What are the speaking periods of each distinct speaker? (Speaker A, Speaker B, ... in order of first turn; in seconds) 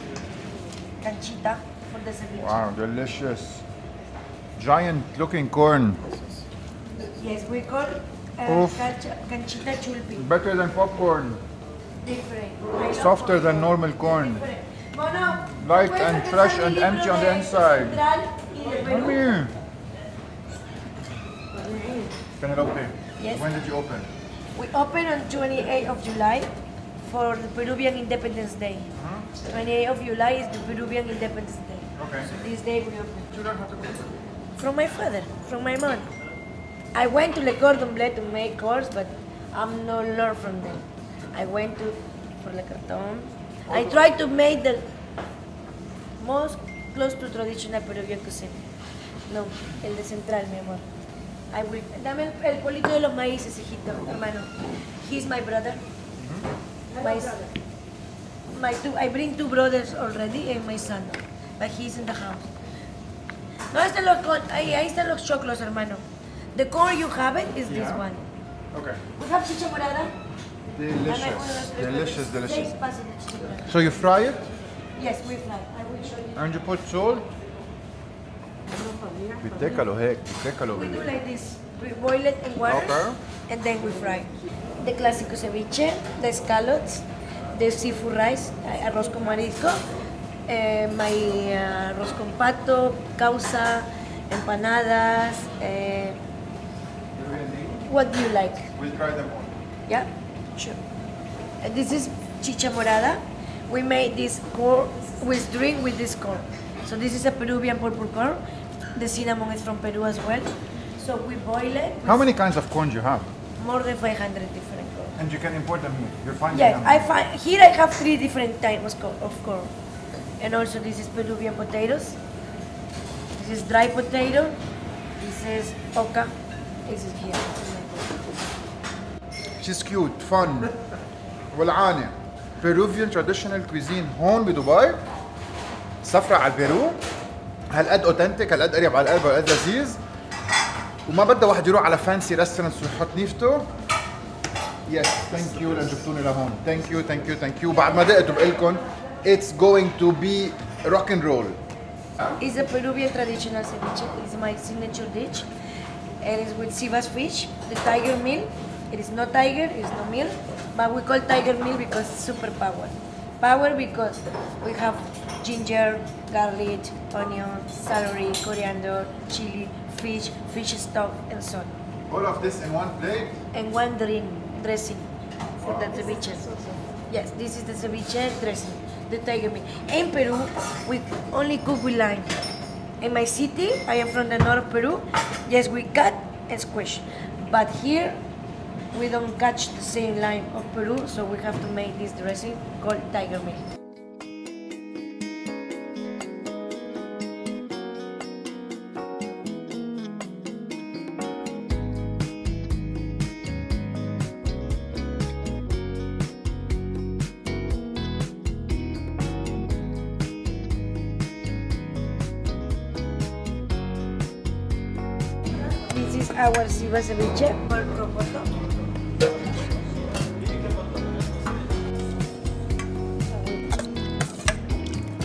Speaker A: 1.0-2.6, 7.0-10.2, 12.0-19.3, 23.2-23.4, 24.5-33.3, 34.6-36.1, 36.9-44.9, 46.2-48.7, 49.3-50.9, 51.5-55.8, 56.9-57.4, 58.5-62.5, 63.7-68.3, 69.2-70.1, 71.0-73.8, 75.0-76.3, 80.7-89.9, 90.5-96.2, 97.8-98.7, 99.9-100.8, 101.6-108.4, 108.9-112.3, 113.6-115.2, 116.5-119.7, 120.4-122.2, 123.3-124.6, 125.2-126.3, 126.8-128.2, 152.4-155.5, 156.2-171.7, 173.5-176.5, 177.1-182.3, 183.0-188.2, 188.9-193.7, 215.9-218.6, 223.3-223.9
Speaker B: 2.4-3.6, 4.6-6.2, 8.5-8.9, 10.2-11.4, 12.9-14.4, 15.5-18.0, 18.8-19.6, 22.4-24.1, 28.9-29.3, 32.0-32.3, 33.3-34.2, 56.2-56.5, 67.7-68.0, 68.7-69.0, 70.7-72.8, 73.7-74.5, 76.3-77.3, 79.4-81.1, 82.6-83.2, 97.2-97.8, 98.7-99.6, 112.0-113.3, 115.2-117.1, 129.6-130.7, 131.5-135.0, 136.0-137.0, 137.7-140.0, 141.1-143.7, 144.9-151.6, 172.1-173.4, 175.6-176.0